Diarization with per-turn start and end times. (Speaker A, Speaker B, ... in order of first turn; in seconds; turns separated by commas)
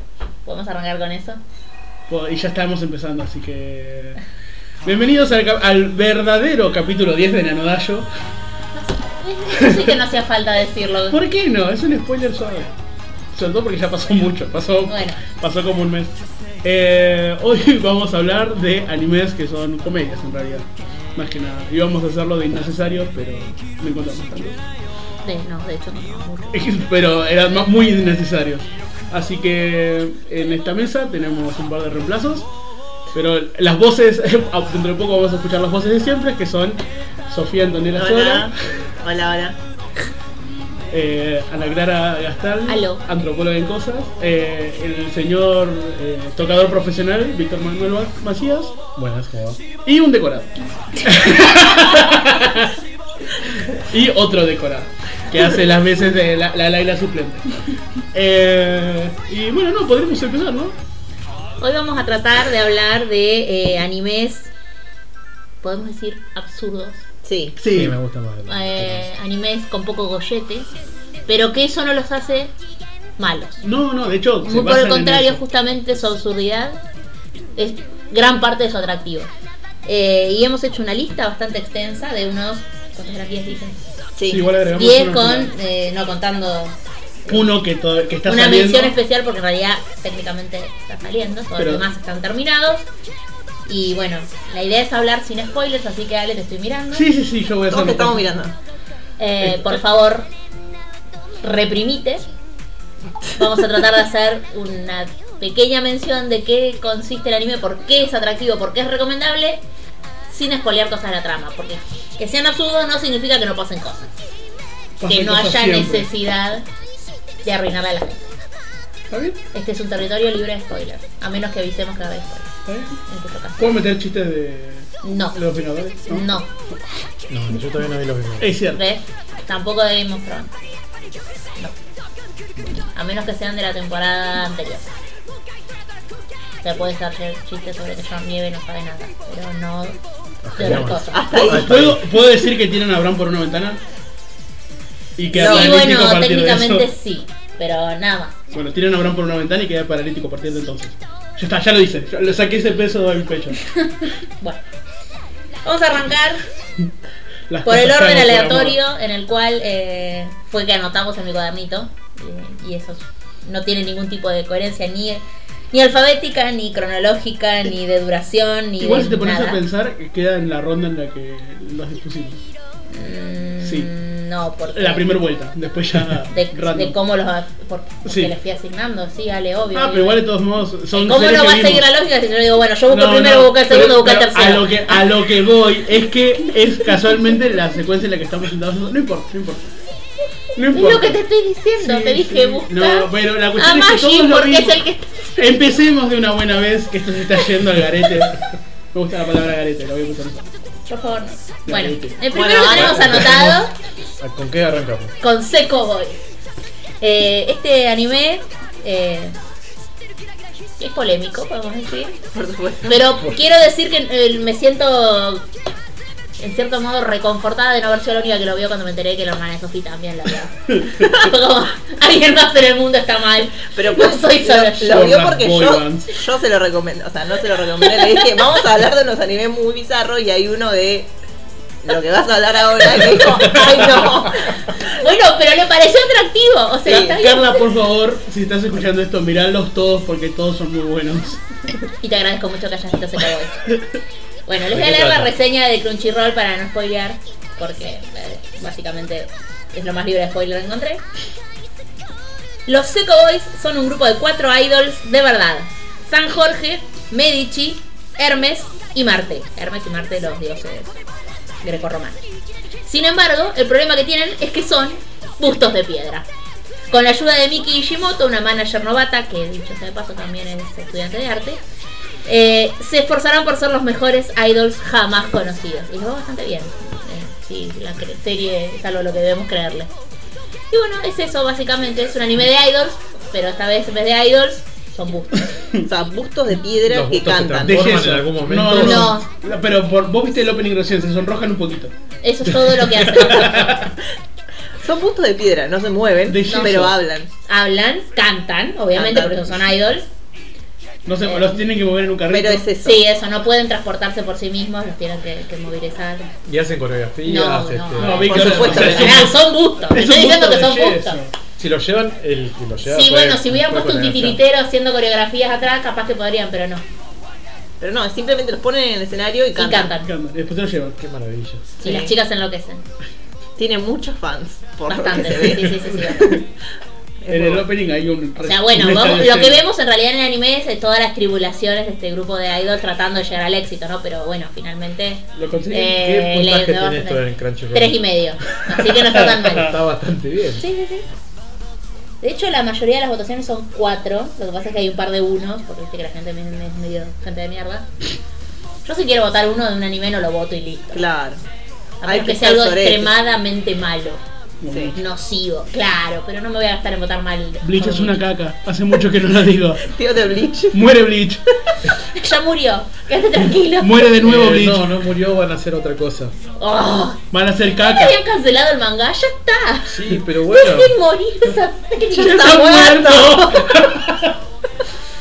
Speaker A: 0.4-1.4, Speaker B: 2.1-4.2, Speaker B: 4.8-8.1, Speaker A: 8.7-11.2, Speaker B: 9.6-9.9, Speaker B: 11.1-12.7, Speaker B: 13.3-24.6, Speaker A: 14.9-15.2, Speaker A: 25.2-26.6, Speaker B: 26.5-32.5, Speaker B: 33.1-38.5, Speaker C: 37.9-39.6, Speaker B: 40.9-48.8, Speaker A: 42.6-43.0, Speaker D: 48.9-49.6, Speaker B: 49.8-52.7, Speaker B: 53.4-57.5, Speaker B: 58.1-60.7, Speaker A: 61.6-64.5, Speaker A: 65.6-67.0, Speaker C: 67.2-67.6, Speaker B: 67.6-68.0, Speaker D: 67.7-69.1, Speaker A: 68.5-70.7, Speaker A: 71.3-72.5, Speaker A: 73.2-73.6, Speaker B: 73.6-75.4, Speaker A: 74.4-76.8, Speaker A: 77.6-79.3, Speaker A: 79.8-83.8, Speaker C: 84.2-84.5, Speaker B: 84.3-85.5, Speaker A: 84.7-86.8, Speaker B: 87.3-88.9, Speaker A: 88.2-92.9, Speaker B: 91.6-91.8, Speaker A: 93.7-97.1, Speaker B: 96.9-98.3, Speaker C: 97.7-98.5, Speaker A: 99.2-100.3, Speaker A: 101.4-102.3, Speaker A: 103.4-109.6, Speaker A: 110.3-114.1, Speaker B: 115.0-116.1, Speaker A: 115.0-116.7, Speaker A: 117.4-118.4, Speaker B: 119.1-119.4, Speaker A: 119.5-122.5, Speaker B: 122.7-123.0, Speaker A: 123.1-123.8, Speaker B: 123.6-126.3, Speaker A: 125.0-125.4, Speaker A: 126.1-126.5, Speaker D: 127.3-128.5, Speaker B: 128.4-128.8, Speaker A: 128.7-130.5, Speaker A: 132.9-134.9, Speaker A: 136.6-140.0, Speaker D: 140.4-142.0, Speaker A: 140.5-141.3, Speaker C: 141.0-141.9, Speaker B: 141.3-143.8, Speaker B: 145.2-146.9, Speaker A: 145.3-148.4, Speaker C: 145.3-145.8, Speaker B: 148.5-153.6, Speaker A: 155.6-156.4, Speaker B: 157.5-158.8, Speaker A: 157.6-169.6, Speaker B: 168.8-172.4, Speaker A: 172.9-175.1, Speaker B: 173.6-173.9, Speaker B: 174.7-176.9, Speaker A: 176.3-180.2, Speaker B: 178.0-178.3, Speaker B: 179.7-181.8, Speaker A: 180.9-185.0, Speaker B: 182.9-189.7, Speaker B: 190.5-191.2, Speaker A: 190.7-195.3, Speaker B: 191.8-194.8, Speaker B: 195.3-198.4, Speaker B: 198.9-200.5, Speaker A: 200.9-203.7, Speaker B: 201.7-202.2, Speaker C: 202.3-203.5, Speaker D: 202.7-203.6, Speaker D: 204.2-205.1, Speaker A: 205.2-206.2, Speaker A: 207.0-209.3, Speaker A: 210.8-212.2, Speaker C: 212.3-213.2, Speaker A: 212.8-215.5, Speaker A: 216.4-225.2, Speaker C: 223.7-231.1, Speaker B: 224.8-226.1, Speaker A: 227.9-228.2, Speaker C: 231.8-234.7, Speaker A: 234.8-237.6, Speaker B: 236.8-241.4, Speaker A: 242.0-243.7, Speaker A: 244.4-251.0, Speaker D: 244.7-245.3, Speaker A: 252.7-261.0, Speaker A: 261.6-262.2, Speaker A: 262.8-266.3, Speaker A: 266.9-271.6, Speaker A: 272.2-279.9, Speaker A: 280.7-285.5, Speaker C: 285.8-287.9, Speaker D: 286.9-289.1, Speaker B: 287.6-291.9, Speaker A: 288.7-289.3, Speaker A: 292.2-293.7, Speaker B: 292.6-293.8, Speaker C: 293.3-293.9, Speaker C: 294.8-297.3, Speaker B: 296.3-297.0, Speaker A: 296.4-296.8, Speaker A: 297.4-300.1, Speaker C: 298.9-299.5, Speaker B: 301.1-302.6, Speaker A: 301.2-301.6, Speaker C: 302.3-303.0, Speaker A: 302.8-306.3, Speaker D: 306.4-309.2, Speaker A: 307.2-311.2, Speaker B: 308.0-309.4, Speaker C: 308.3-309.3, Speaker B: 309.9-311.3, Speaker D: 311.6-314.4, Speaker A: 312.9-316.8, Speaker C: 317.8-319.9, Speaker A: 319.6-320.1, Speaker B: 320.0-321.0, Speaker D: 321.0-321.7, Speaker A: 321.8-322.8, Speaker C: 321.8-322.1, Speaker C: 323.6-326.5, Speaker A: 324.9-326.4, Speaker C: 327.2-327.7, Speaker B: 327.3-329.6, Speaker A: 328.4-339.8, Speaker B: 335.3-336.2, Speaker D: 336.1-338.0, Speaker D: 339.4-340.6, Speaker A: 340.6-341.1, Speaker A: 342.2-347.9, Speaker A: 348.8-351.0, Speaker C: 350.9-351.4, Speaker A: 352.0-354.2, Speaker C: 352.0-353.1, Speaker B: 354.6-355.0, Speaker C: 354.7-354.9, Speaker A: 354.9-358.2, Speaker B: 357.6-359.9, Speaker C: 359.8-360.8, Speaker B: 360.7-361.4, Speaker A: 362.1-364.0, Speaker B: 363.8-364.9, Speaker D: 364.2-366.3, Speaker A: 366.6-367.2, Speaker B: 367.3-368.2, Speaker A: 367.8-372.9, Speaker D: 369.9-370.9, Speaker C: 372.1-373.8, Speaker B: 372.1-374.3